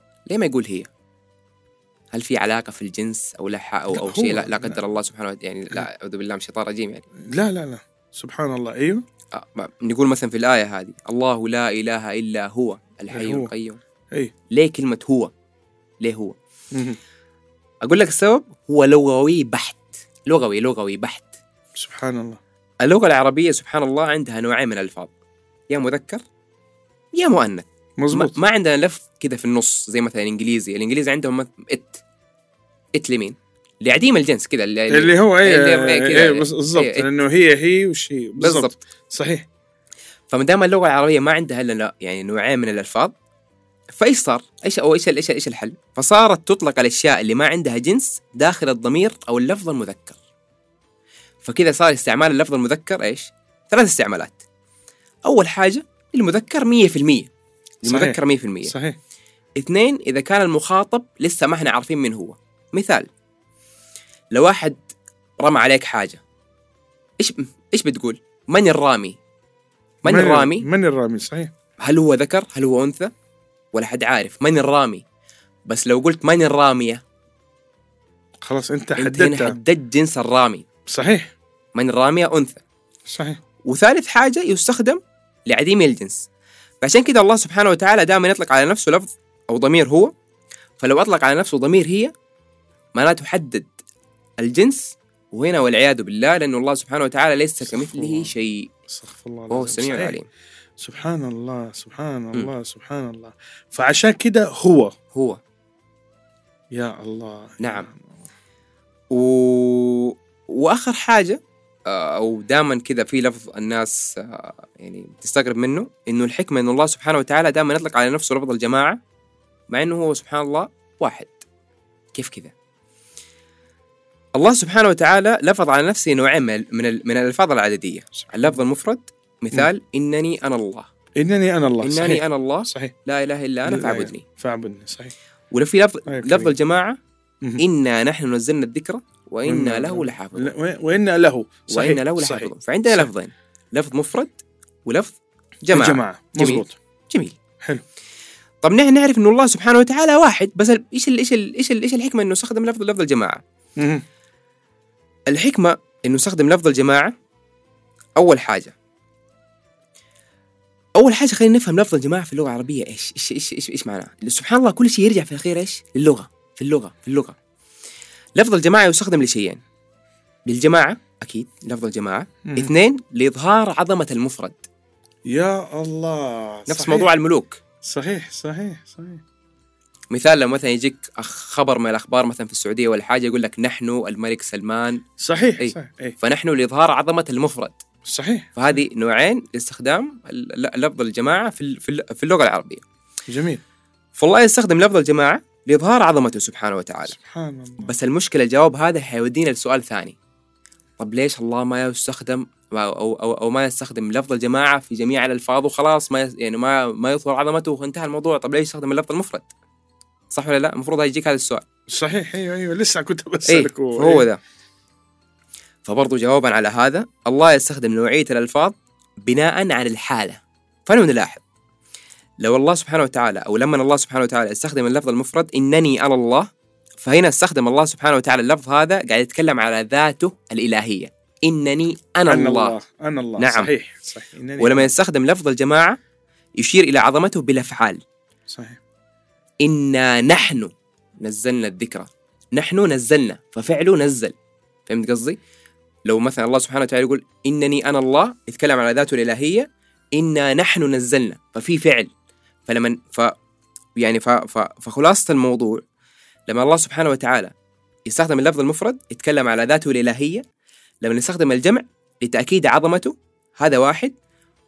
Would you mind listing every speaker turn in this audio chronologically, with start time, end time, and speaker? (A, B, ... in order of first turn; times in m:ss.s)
0:00.3-0:00.9 A
0:02.1-0:07.0 A
0:03.9-0:04.8 B
0:07.3-0:09.0 B
0:09.3-0:13.8 A
0:13.1-0:13.5 B
0:14.5-0:15.3 A
0:16.0-0:16.4 A
0:16.7-0:17.0 B
0:17.8-0:21.3 A
0:21.8-0:22.4 B
0:22.8-0:25.1 A
0:25.7-0:26.2 A
0:27.1-0:32.0 A
0:28.0-0:28.4 B
0:33.0-0:37.1 A
0:34.9-0:39.4 B
0:38.4-0:38.8 A
0:40.3-0:43.1 A
0:44.0-0:50.2 A
0:51.4-0:54.4 A
0:55.3-0:57.3 A
0:57.8-0:58.8 A
0:57.8-0:59.0 B
0:59.6-1:03.1 A
1:04.3-1:04.8 A
1:05.4-1:06.2 A
1:07.2-1:09.2 A
1:10.0-1:10.7 A
1:10.0-1:11.5 B
1:11.8-1:13.1 A
1:13.7-1:15.0 A
1:15.7-1:17.0 A
1:18.4-1:19.6 B
1:19.0-1:20.7 A
1:20.9-1:21.3 B
1:21.7-1:22.6 A
1:23.1-1:23.4 B
1:23.6-1:26.3 A
1:26.8-1:30.1 A
1:30.8-1:32.1 A
1:33.0-1:33.7 A
1:34.4-1:38.7 A
1:37.7-1:38.3 B
1:38.9-1:40.2 B
1:39.5-1:40.3 A
1:40.8-1:44.9 B
1:45.1-1:45.4 A
1:46.7-1:48.1 B
1:47.6-1:47.9 A
1:49.1-1:59.0 A
1:59.7-2:01.4 A
2:02.1-2:02.5 A
2:04.4-2:10.9 A
2:11.2-2:12.9 B
2:11.8-2:14.2 A
2:13.6-2:15.1 B
2:15.5-2:17.0 A
2:16.1-2:16.6 B
2:17.6-2:20.5 A
2:19.4-2:23.1 B
2:21.7-2:27.4 A
2:25.7-2:26.8 B
2:28.6-2:33.4 A
2:33.8-2:34.0 B
2:35.3-2:37.1 A
2:38.2-2:38.7 A
2:41.0-2:47.4 A
2:48.4-2:49.6 A
2:50.5-2:54.6 A
2:52.5-2:52.7 B
2:55.3-2:57.1 B
2:56.7-2:57.6 A
2:57.8-2:59.2 B
3:00.1-3:05.0 A
3:05.2-3:06.2 B
3:05.6-3:07.8 A
3:08.1-3:08.6 B
3:08.6-3:12.8 A
3:13.3-3:13.6 B
3:14.2-3:17.2 A
3:17.2-3:17.9 B
3:17.8-3:20.2 A
3:21.0-3:29.5 A
3:30.3-3:31.6 A
3:31.9-3:34.3 B
3:33.4-3:34.4 A
3:35.8-3:41.4 A
3:42.4-3:52.8 A
3:52.3-3:55.0 B
3:53.4-3:53.7 A
3:54.6-3:56.0 A
3:56.6-3:58.0 A
3:58.5-3:58.8 B
3:59.6-4:04.4 A
4:04.9-4:05.4 A
4:06.1-4:12.1 A
4:12.7-4:13.4 A
4:14.0-4:15.8 A
4:16.5-4:17.5 A
4:18.1-4:20.4 A
4:21.0-4:24.2 A